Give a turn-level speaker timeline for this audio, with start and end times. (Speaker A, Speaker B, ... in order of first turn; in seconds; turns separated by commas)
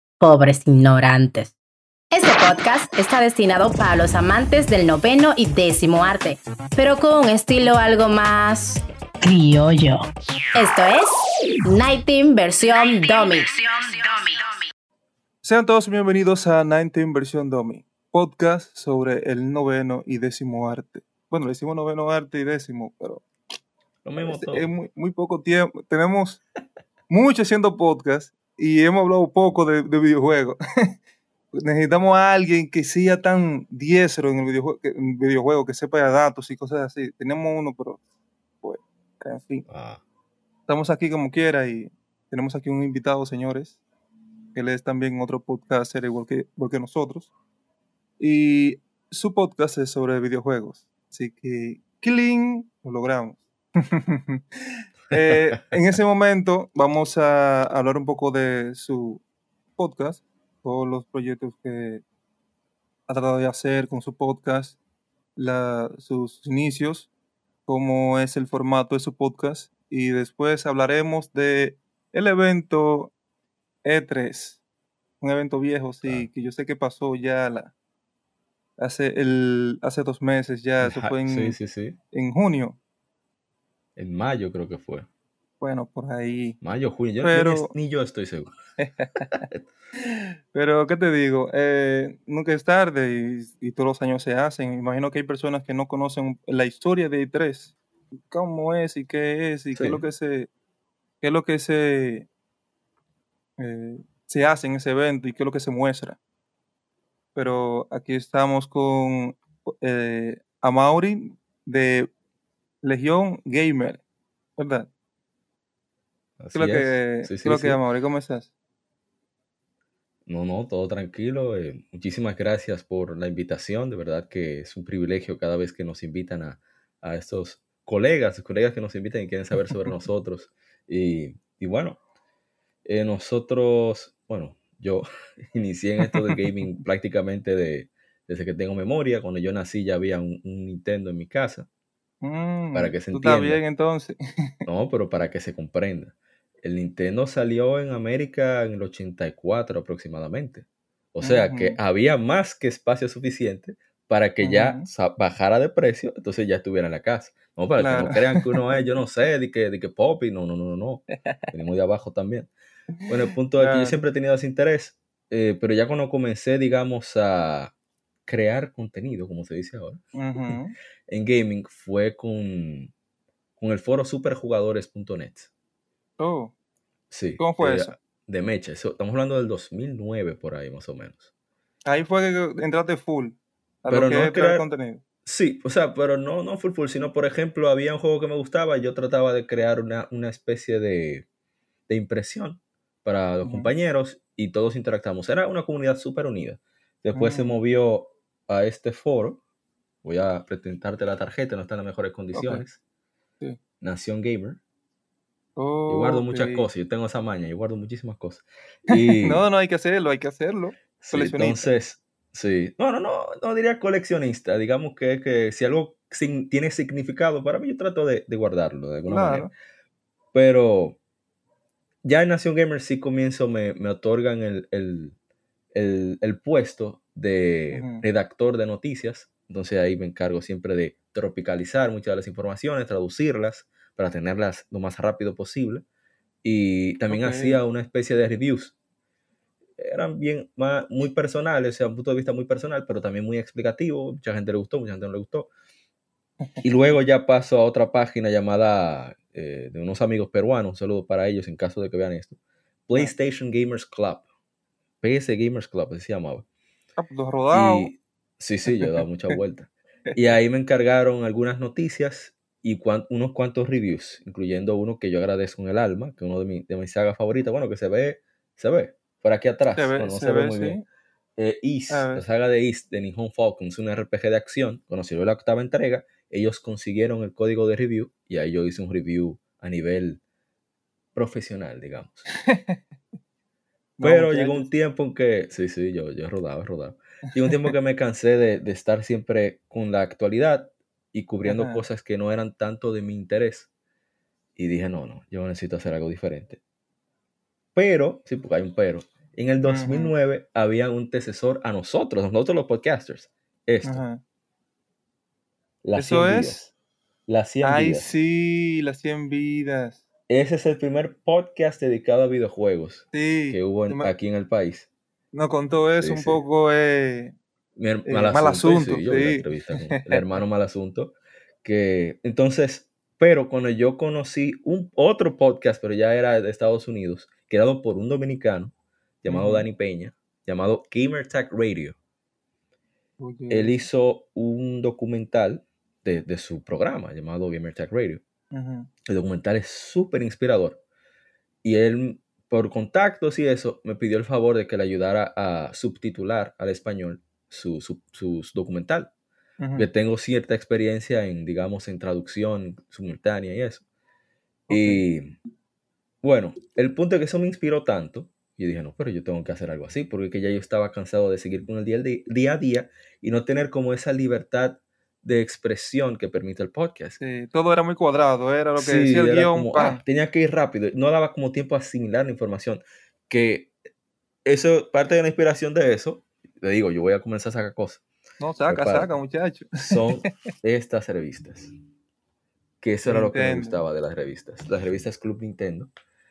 Speaker A: 0.2-1.5, Speaker A: 2.1-14.6, Speaker B: 15.4-23.2, Speaker C: 24.0-24.7, Speaker B: 24.2-26.4, Speaker B: 27.1-30.6, Speaker B: 31.5-38.0, Speaker B: 38.6-39.7, Speaker C: 39.7-40.0, Speaker B: 40.7-43.8, Speaker B: 44.5-47.3, Speaker B: 48.2-54.4, Speaker B: 55.1-59.2, Speaker B: 59.8-62.0, Speaker B: 63.1-64.8, Speaker B: 65.4-67.1, Speaker B: 67.7-73.1, Speaker B: 73.8-74.6, Speaker B: 75.2-77.7, Speaker C: 76.0-76.3, Speaker B: 78.8-81.6, Speaker C: 80.8-82.0, Speaker B: 82.1-82.8, Speaker C: 84.0-85.1, Speaker B: 85.6-86.6, Speaker C: 86.6-88.5, Speaker B: 87.2-87.7, Speaker B: 88.8-89.5, Speaker B: 90.1-97.7, Speaker B: 98.3-100.5, Speaker C: 99.8-100.0, Speaker B: 101.2-102.3, Speaker B: 103.6-106.2, Speaker B: 107.4-112.1, Speaker B: 112.8-114.0, Speaker B: 114.6-114.9, Speaker C: 116.4-117.8, Speaker B: 116.5-118.5, Speaker C: 120.3-132.0, Speaker C: 132.8-141.7, Speaker B: 136.0-136.4, Speaker B: 142.2-144.5, Speaker C: 142.7-143.6, Speaker C: 144.7-162.5, Speaker B: 151.2-151.8, Speaker B: 154.4-154.9, Speaker B: 157.8-158.6, Speaker C: 163.1-167.7, Speaker B: 163.5-164.0, Speaker C: 168.3-170.6, Speaker B: 170.2-170.7, Speaker C: 171.1-172.9, Speaker C: 173.6-175.5, Speaker B: 176.2-176.5, Speaker C: 177.1-181.3, Speaker B: 177.4-178.0, Speaker B: 181.9-185.0, Speaker C: 183.9-184.7, Speaker C: 185.2-191.3, Speaker C: 191.9-199.4, Speaker B: 193.4-193.7, Speaker B: 197.2-197.6, Speaker C: 200.0-202.8, Speaker B: 202.3-202.7, Speaker C: 203.8-204.6, Speaker B: 205.6-206.7, Speaker C: 205.9-209.4, Speaker B: 208.9-211.7, Speaker C: 211.0-219.5, Speaker B: 219.1-219.5, Speaker C: 220.3-221.0, Speaker C: 222.0-225.2, Speaker C: 225.7-235.8, Speaker B: 227.7-228.1, Speaker C: 236.4-238.8, Speaker B: 237.1-237.6, Speaker C: 239.8-245.5, Speaker C: 246.6-254.2, Speaker C: 255.0-256.5, Speaker B: 257.0-257.9, Speaker C: 257.5-270.8, Speaker B: 269.8-270.8, Speaker C: 271.4-280.2, Speaker B: 271.9-272.2, Speaker C: 281.1-282.3, Speaker B: 282.4-282.8, Speaker B: 284.0-284.7, Speaker C: 284.0-293.7, Speaker B: 291.4-291.8, Speaker C: 294.6-296.6, Speaker C: 297.8-304.0, Speaker B: 299.6-300.1, Speaker B: 303.8-304.2, Speaker C: 305.8-306.7, Speaker B: 306.0-306.6, Speaker C: 307.3-308.1, Speaker B: 307.6-310.0, Speaker C: 310.3-314.9, Speaker B: 313.1-314.1, Speaker B: 315.3-317.4, Speaker C: 316.0-316.4, Speaker C: 317.8-332.0, Speaker B: 318.1-320.2, Speaker B: 329.3-329.7, Speaker B: 333.2-333.8, Speaker C: 333.5-338.2, Speaker B: 338.5-338.9, Speaker C: 339.1-340.8, Speaker C: 341.6-349.1, Speaker B: 349.6-349.9, Speaker C: 349.8-353.8, Speaker B: 354.7-355.0, Speaker C: 354.7-355.3, Speaker C: 356.2-367.2, Speaker B: 367.2-370.0, Speaker C: 368.8-373.7, Speaker C: 374.4-378.0, Speaker B: 378.4-380.3, Speaker C: 378.7-379.1, Speaker C: 379.8-381.7, Speaker C: 382.8-385.9, Speaker B: 383.1-383.8